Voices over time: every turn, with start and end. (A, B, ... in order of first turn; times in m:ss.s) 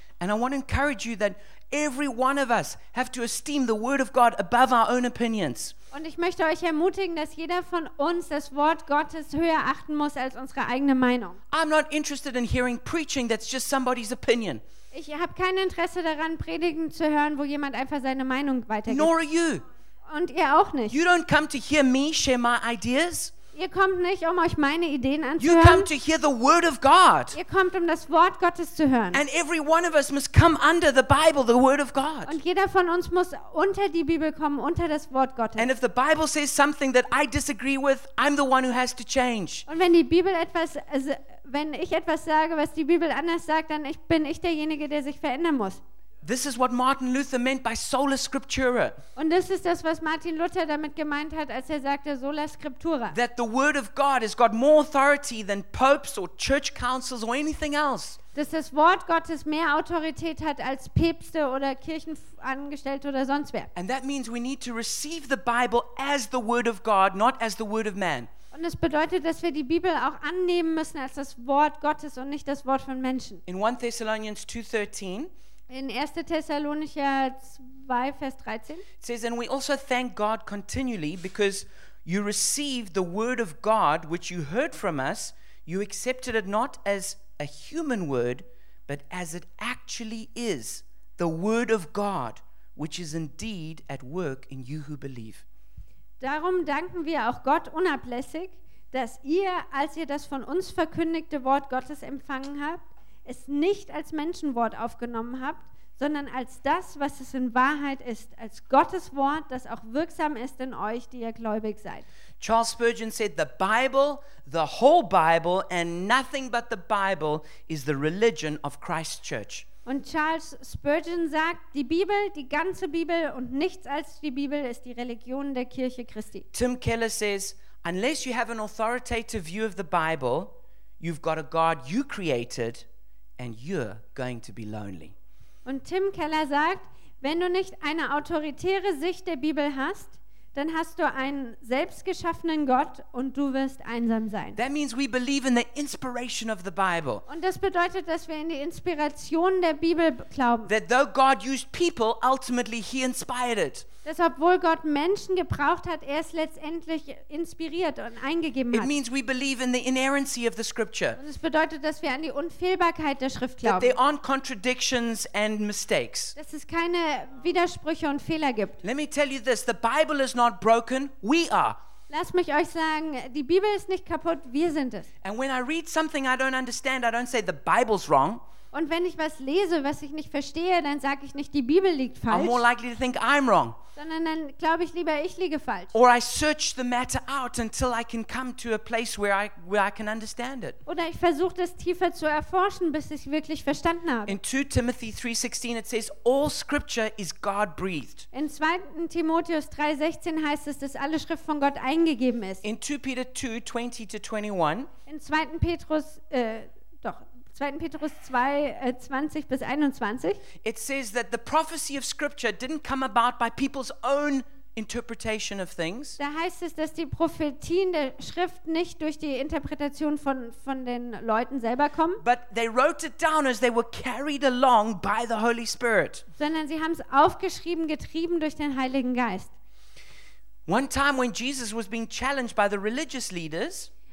0:00.2-0:05.7 A
0:05.9-0:11.4 B
0:11.5-0:14.6 A
0:14.9-0:19.1 B
0:18.9-0:19.6 A
0:20.0-0:21.0 B
0:20.9-0:23.3 A
0:23.5-0:25.9 B
0:25.4-0:27.4 A
0:27.3-0:29.2 B
0:29.1-0:32.4 A
0:32.2-0:35.7 B
0:35.6-0:39.6 A
0:39.7-0:45.8 B
0:46.2-0:49.0 A
0:49.2-0:53.2 B
0:53.1-0:58.2 A
0:58.3-1:03.7 B
1:03.7-1:08.3 A
1:08.5-1:13.4 B
1:13.5-1:15.3 A
1:15.7-1:18.8 B
1:19.0-1:35.4 A
1:36.2-1:52.0 B
1:52.4-1:59.7 A
1:59.8-2:06.4 B
2:06.5-2:12.8 A
2:13.4-2:15.1 A
2:15.6-2:24.6 B
2:24.6-2:27.2 A
2:27.3-2:30.7 B
2:30.6-2:33.8 A
2:34.0-2:38.9 B
2:38.7-2:41.2 A
2:41.2-2:44.0 B
2:43.6-2:46.3 A
2:46.4-2:48.8 B
2:48.8-2:51.8 A
2:52.1-2:55.1 B
2:55.2-2:58.4 A
2:58.7-3:02.6 B
3:02.3-3:03.8 A
3:04.0-3:05.9 B
3:05.9-3:10.8 A
3:10.8-3:14.4 B
3:14.2-3:18.3 A
3:18.3-3:22.6 B
3:22.6-3:24.9 A
3:25.1-3:30.4 B
3:30.6-3:36.2 A
3:36.2-3:42.2 B
3:42.2-3:46.2 A
3:46.4-3:49.5 B
3:50.7-3:53.9 A